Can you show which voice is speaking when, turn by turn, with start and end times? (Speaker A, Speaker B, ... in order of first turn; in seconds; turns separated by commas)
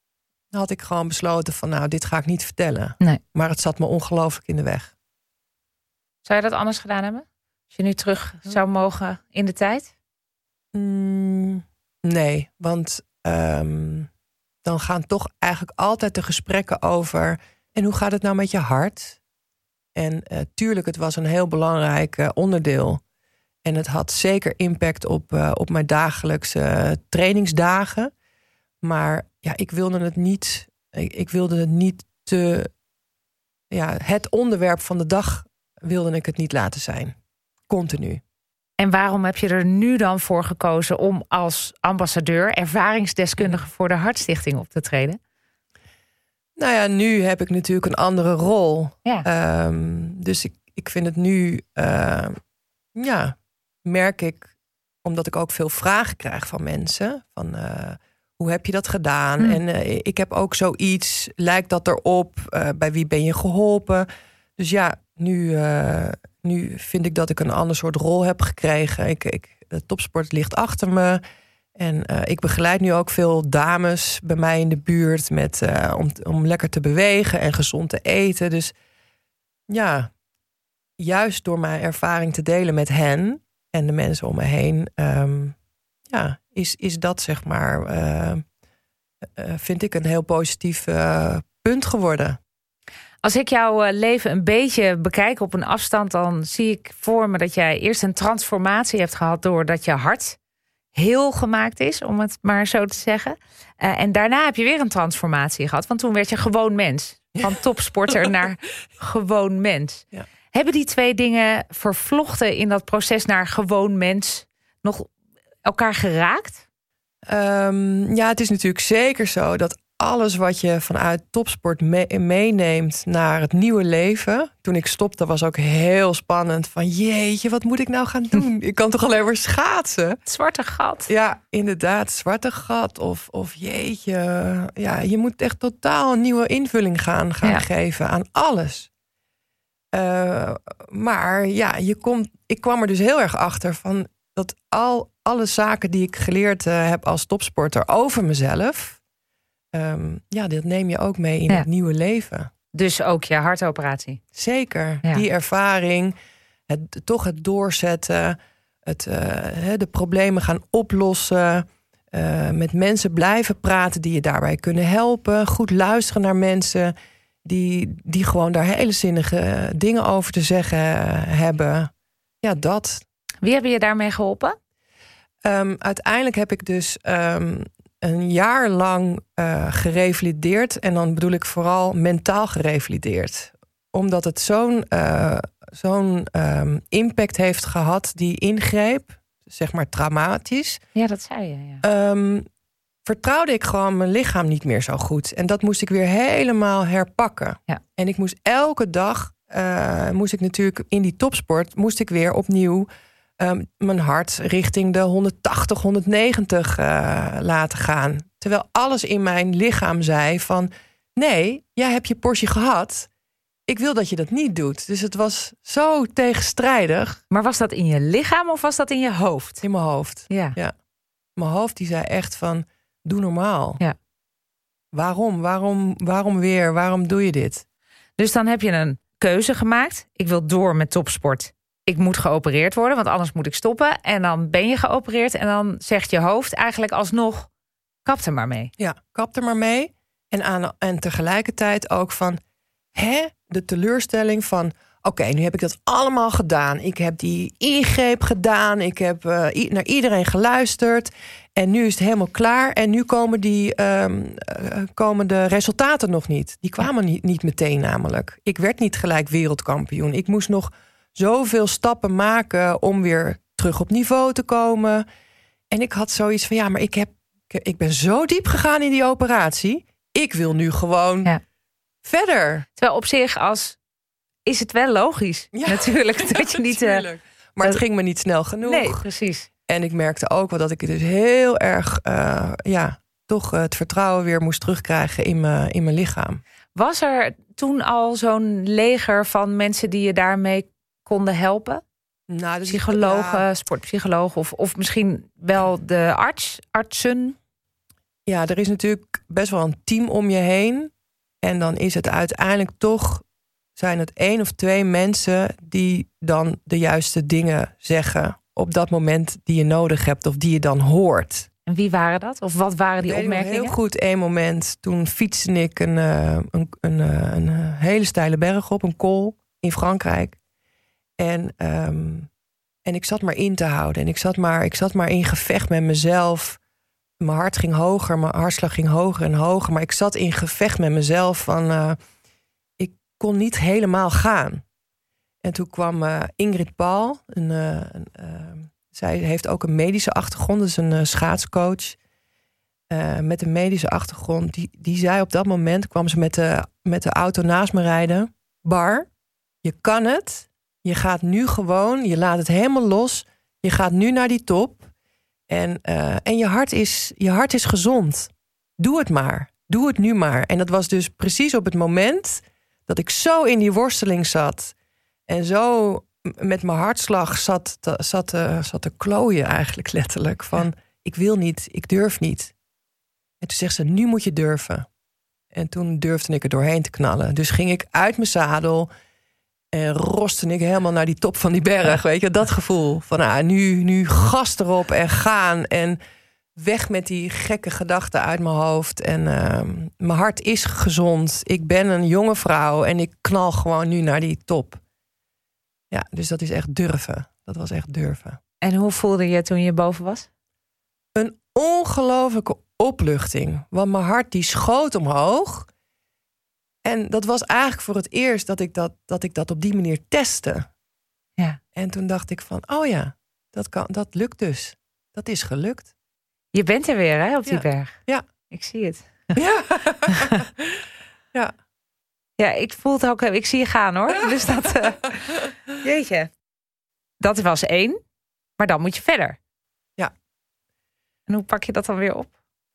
Speaker A: 0.5-4.9, Speaker B: 6.2-9.9, Speaker A: 10.7-14.1, Speaker A: 14.6-19.2, Speaker A: 19.9-23.0, Speaker A: 23.6-28.1, Speaker A: 28.8-32.7, Speaker A: 33.7-37.1, Speaker A: 37.7-38.2, Speaker B: 38.8-45.2, Speaker A: 46.6-52.4, Speaker A: 52.9-54.5, Speaker A: 55.0-71.2, Speaker A: 71.7-78.7, Speaker A: 79.7-80.1, Speaker A: 81.0-85.5, Speaker A: 86.1-88.4, Speaker A: 89.3-92.4, Speaker B: 93.2-100.4, Speaker B: 100.9-115.1, Speaker B: 115.6-116.6, Speaker A: 117.3-130.2, Speaker B: 130.2-131.1, Speaker A: 131.1-138.9, Speaker A: 139.9-149.0, Speaker A: 149.7-152.5, Speaker B: 152.7-154.2, Speaker A: 154.3-156.1, Speaker A: 156.7-166.9, Speaker A: 167.4-171.9, Speaker A: 172.4-173.0, Speaker B: 173.4-174.6, Speaker A: 175.4-190.8, Speaker B: 190.9-191.8, Speaker A: 191.8-192.4, Speaker A: 193.0-202.9, Speaker A: 203.4-213.1, Speaker A: 213.7-217.2, Speaker B: 217.3-219.6, Speaker A: 219.6-220.7, Speaker B: 220.3-220.6, Speaker A: 221.3-223.8, Speaker A: 224.9-227.6, Speaker B: 228.2-237.5, Speaker B: 238.0-238.7, Speaker A: 238.8-242.4, Speaker A: 242.9-265.1, Speaker A: 265.7-271.3, Speaker A: 272.0-272.6, Speaker B: 272.8-273.8, Speaker B: 274.4-277.0, Speaker A: 275.5-279.0, Speaker B: 278.6-279.5, Speaker A: 279.7-286.4, Speaker B: 286.7-291.8, Speaker A: 292.3-293.4, Speaker B: 292.7-297.4, Speaker A: 298.2-303.2, Speaker A: 303.8-311.5, Speaker B: 311.6-313.7, Speaker A: 313.0-320.4, Speaker A: 321.2-322.3, Speaker A: 322.8-326.6, Speaker A: 327.2-332.0, Speaker A: 332.8-334.6, Speaker A: 335.4-342.0, Speaker A: 342.9-349.1, Speaker A: 349.6-354.9, Speaker A: 355.5-364.7, Speaker A: 365.3-372.5, Speaker A: 373.4-374.9, Speaker A: 375.5-378.9, Speaker A: 379.7-386.0, Speaker A: 386.6-394.8, Speaker A: 395.9-398.4, Speaker B: 398.6-400.3, Speaker A: 401.1-405.7, Speaker A: 406.8-410.7, Speaker A: 411.7-415.9, Speaker B: 416.5-418.0, Speaker A: 417.4-418.2, Speaker B: 418.5-419.3, Speaker A: 419.3-421.5, Speaker B: 420.1-420.4, Speaker B: 422.4-426.3, Speaker B: 427.2-428.0, Speaker B: 428.6-429.4, Speaker B: 431.3-432.3